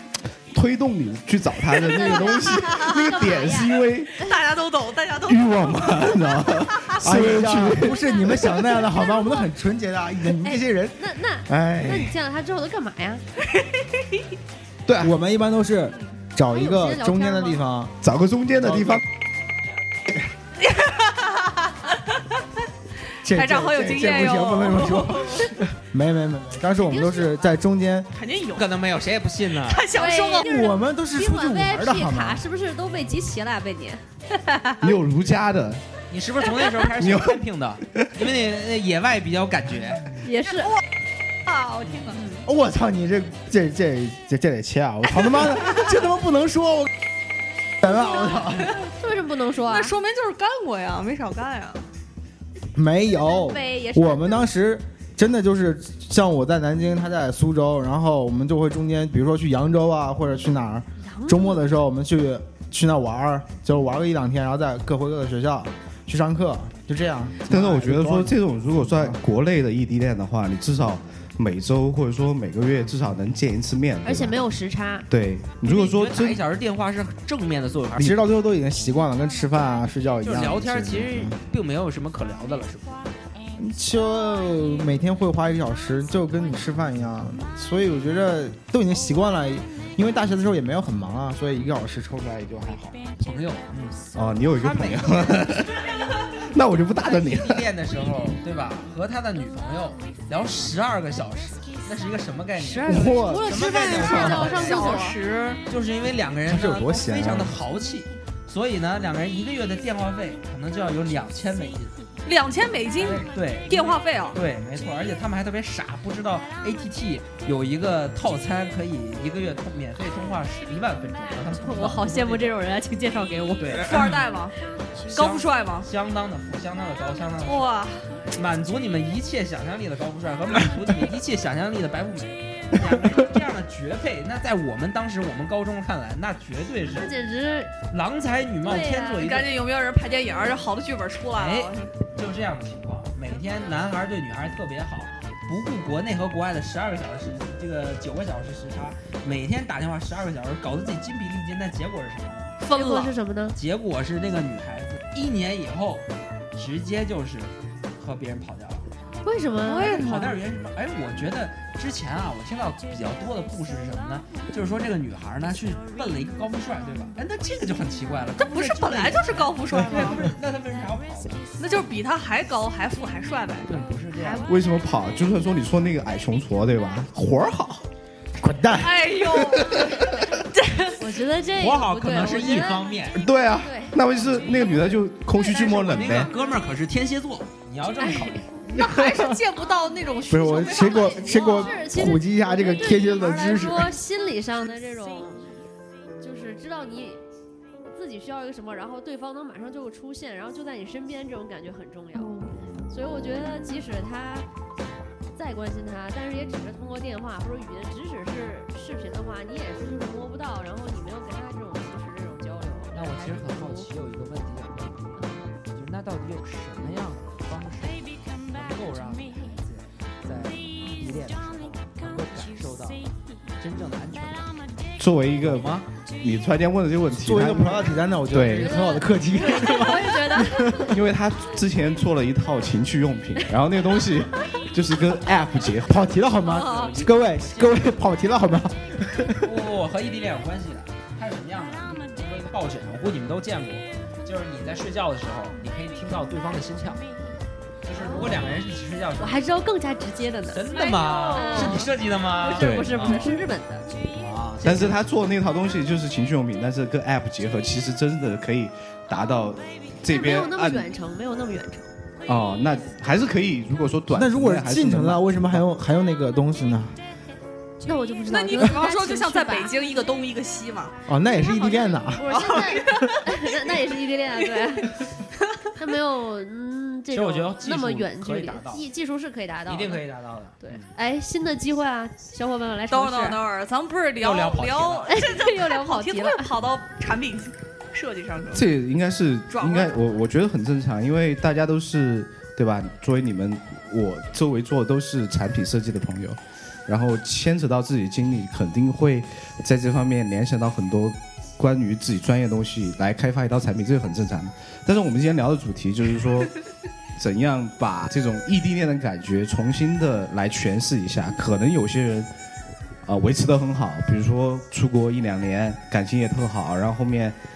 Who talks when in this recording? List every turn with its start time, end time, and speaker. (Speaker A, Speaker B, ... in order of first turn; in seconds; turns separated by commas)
Speaker A: 0.5-4.2, Speaker B: 1.8-3.8, Speaker C: 2.0-3.1, Speaker C: 4.2-7.0, Speaker A: 5.2-8.0, Speaker D: 7.0-12.1, Speaker B: 10.4-13.2, Speaker A: 14.8-15.1, Speaker D: 15.0-18.0, Speaker B: 16.5-17.6, Speaker A: 18.0-19.0, Speaker D: 18.6-19.0, Speaker C: 20.7-21.9, Speaker D: 23.2-28.1, Speaker C: 23.2-25.5, Speaker B: 26.8-27.4, Speaker C: 28.1-28.7, Speaker E: 28.5-29.9, Speaker C: 29.6-30.6, Speaker B: 29.9-34.0, Speaker D: 30.4-32.4, Speaker A: 34.8-35.8, Speaker E: 36.1-40.1, Speaker A: 37.0-37.4, Speaker B: 40.2-40.7, Speaker C: 40.5-40.8, Speaker C: 41.4-42.2, Speaker B: 42.1-42.4, Speaker D: 42.4-46.9, Speaker D: 47.8-48.8, Speaker B: 47.8-49.9, Speaker C: 48.4-48.8, Speaker C: 49.7-51.8, Speaker D: 52.7-69.2, Speaker B: 53.2-54.5, Speaker B: 61.0-61.6, Speaker A: 67.5-74.4, Speaker B: 74.0-75.1, Speaker A: 75.1-76.4, Speaker E: 75.6-78.1, Speaker D: 78.0-81.4, Speaker E: 80.2-83.0, Speaker D: 83.6-93.0, Speaker E: 93.2-95.5, Speaker A: 94.1-95.8, Speaker A: 96.5-97.7, Speaker E: 97.0-105.0, Speaker B: 102.6-105.2, Speaker D: 102.8-104.3, Speaker C: 103.8-105.6, Speaker E: 105.7-111.9, Speaker D: 106.5-107.6, Speaker C: 112.2-114.4, Speaker E: 113.0-122.6, Speaker B: 121.5-124.2, Speaker E: 123.6-124.2, Speaker C: 123.8-124.5, Speaker E: 125.1-127.7, Speaker C: 125.1-125.9, Speaker C: 127.4-128.2, Speaker E: 128.3-137.1, Speaker B: 136.9-137.7, Speaker E: 137.9-139.5, Speaker B: 138.6-139.2, Speaker C: 139.1-141.9, Speaker E: 141.3-152.6, Speaker C: 152.6-153.1, Speaker B: 152.7-153.6, Speaker E: 153.5-158.8, Speaker B: 159.2-160.1, Speaker C: 159.6-160.4, Speaker E: 159.8-171.4, Speaker C: 168.4-170.3, Speaker C: 171.6-174.5, Speaker E: 173.7-174.5, Speaker A: 174.4-177.8, Speaker D: 178.4-179.7, Speaker C: 178.8-179.9, Speaker A: 179.7-180.1, Speaker C: 180.5-181.0, Speaker B: 180.9-182.9, Speaker E: 181.5-183.2, Speaker A: 183.1-186.3, Speaker B: 183.5-186.4, Speaker E: 185.7-188.5, Speaker B: 188.0-188.2, Speaker C: 188.6-191.8, Speaker D: 188.8-189.2, Speaker D: 190.3-193.9, Speaker B: 190.9-195.4, Speaker B: 196.2-197.2, Speaker B: 197.8-204.4, Speaker C: 202.1-202.5, Speaker B: 205.3-213.9, Speaker E: 212.9-215.2, Speaker B: 215.2-215.5, Speaker E: 215.7-223.0, Speaker E: 223.6-224.5, Speaker A: 225.0-228.8, Speaker E: 225.4-225.9, Speaker D: 227.1-230.9, Speaker B: 228.5-230.9, Speaker A: 230.8-236.2, Speaker D: 235.8-239.5, Speaker B: 236.4-236.9, Speaker E: 236.4-238.1, Speaker E: 239.4-247.0, Speaker E: 247.8-249.4, Speaker B: 247.9-248.5, Speaker B: 249.2-253.9, Speaker E: 250.5-253.3, Speaker C: 251.3-251.8, Speaker A: 252.6-253.2, Speaker E: 254.1-255.0, Speaker A: 254.6-260.9, Speaker B: 260.1-261.9, Speaker A: 262.2-265.6, Speaker D: 264.1-267.0, Speaker B: 267.8-269.7, Speaker C: 268.3-270.9, Speaker D: 271.1-272.5, Speaker B: 271.4-275.1, Speaker C: 272.3-273.4, Speaker B: 275.8-280.0, Speaker E: 277.1-278.9, Speaker E: 279.7-280.9, Speaker B: 280.6-283.4, Speaker C: 282.9-288.7, Speaker E: 284.2-285.2, Speaker B: 285.1-286.5, Speaker A: 288.5-306.6, Speaker C: 289.5-290.0, Speaker A: 307.1-312.3, Speaker A: 313.0-317.4